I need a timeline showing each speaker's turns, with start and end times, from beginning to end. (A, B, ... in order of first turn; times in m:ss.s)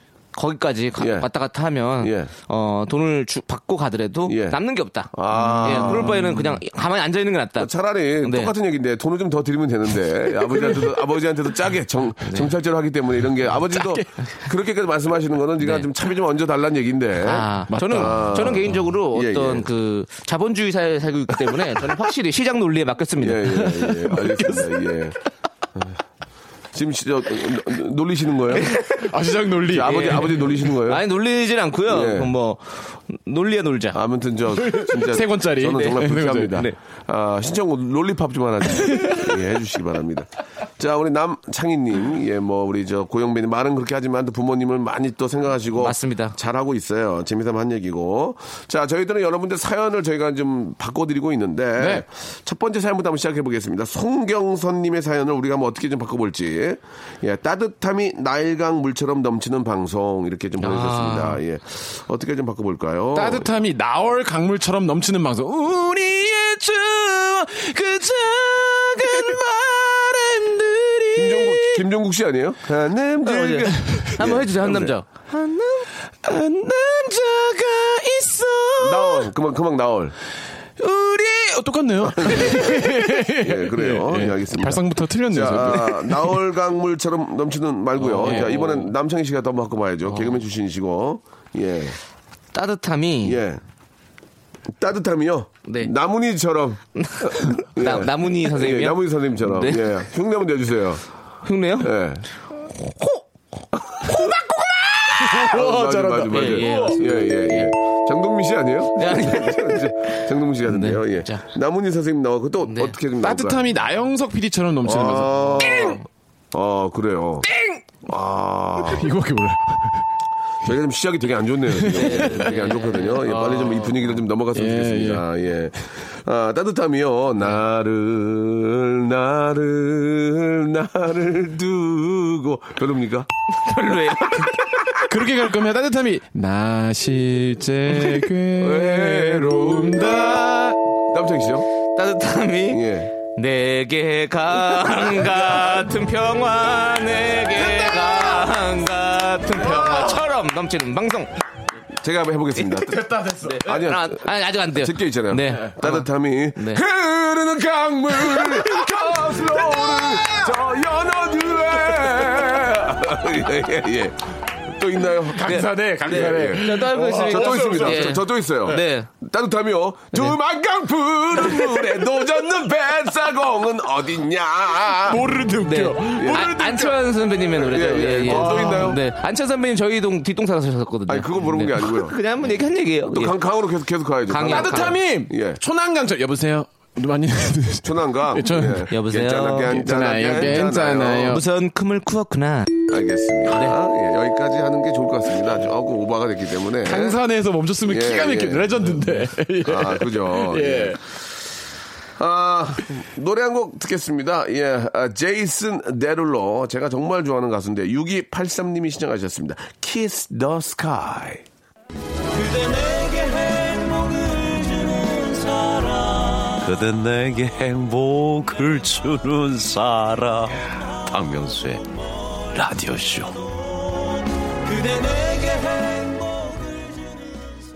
0:00.3-0:07.7 A
0:01.0-0:01.3 B
0:02.0-0:02.3 B
0:04.3-0:04.6 B
0:05.1-0:06.3 B
0:05.4-0:06.5 C
0:07.6-0:19.7 B
0:08.2-0:08.5 A
0:12.2-0:12.5 A
0:13.6-0:14.1 C
0:15.6-0:15.8 A
0:17.2-0:23.8 A
0:17.7-0:18.6 C
0:23.2-0:25.2 B
0:23.6-0:24.7 C
0:26.7-0:28.7 B
0:28.6-0:29.1 A
0:28.9-0:30.7 C
0:29.6-0:31.0 B
0:29.8-0:34.0 A
0:31.9-0:32.3 B
0:33.9-1:03.5 B
0:34.5-0:36.7 C
0:38.8-0:39.4 C
0:45.8-0:46.4 A
0:51.8-0:52.0 C
1:00.6-1:01.4 A
1:03.1-1:11.8 C
1:11.1-1:15.0 B
1:13.2-1:15.9 A
1:16.2-1:19.0 C
1:18.8-1:20.2 B
1:20.8-1:26.4 C
1:22.0-1:32.0 B
1:28.0-1:28.9 C
1:32.5-1:33.4 A
1:33.2-1:33.6 B
1:34.8-1:41.0 B
1:35.6-1:35.9 A
1:37.0-1:40.0 A
1:41.4-1:41.9 A
1:41.8-1:42.2 B
1:42.6-1:43.2 A
1:44.1-1:44.8 A
1:45.0-1:47.0 C
1:45.2-1:53.7 B
1:46.3-1:47.7 A
1:49.0-1:51.4 A
1:52.6-1:53.0 A
1:53.2-1:56.0 C
1:54.8-1:57.5 B
1:57.5-1:57.8 C
1:58.0-1:59.1 B
1:58.8-2:00.0 C
2:00.6-2:13.3 B
2:01.7-2:04.0 C
2:01.9-2:03.6 A
2:04.5-2:05.2 C
2:13.5-2:14.7 A
2:13.8-2:15.0 B
2:15.0-2:20.8 C
2:18.6-2:20.4 B
2:21.1-2:21.7 B
2:21.9-2:22.8 A
2:22.7-2:23.1 B
2:23.3-2:31.3 A
2:29.7-2:30.1 C
2:32.0-2:55.3 B
2:32.7-2:33.7 C
2:33.4-2:36.0 A
2:36.6-2:36.8 A
2:38.1-2:40.5 C
2:45.3-2:48.2 C
2:45.4-2:49.1 A
2:55.0-2:57.1 C
2:55.6-3:03.4 A
2:56.1-2:56.5 B
2:57.5-2:59.0 B
2:58.3-2:58.9 C
3:01.1-3:02.2 B
3:03.1-3:05.6 B
3:04.3-3:05.0 A
3:04.4-3:08.9 C
3:07.8-3:11.4 B
3:08.9-3:09.8 A
3:09.7-3:11.5 C
3:11.3-3:12.7 A
3:12.9-3:17.2 B
3:16.8-3:21.0 C
3:17.8-3:21.0 B
3:22.2-3:31.4 B
3:32.3-3:47.5 D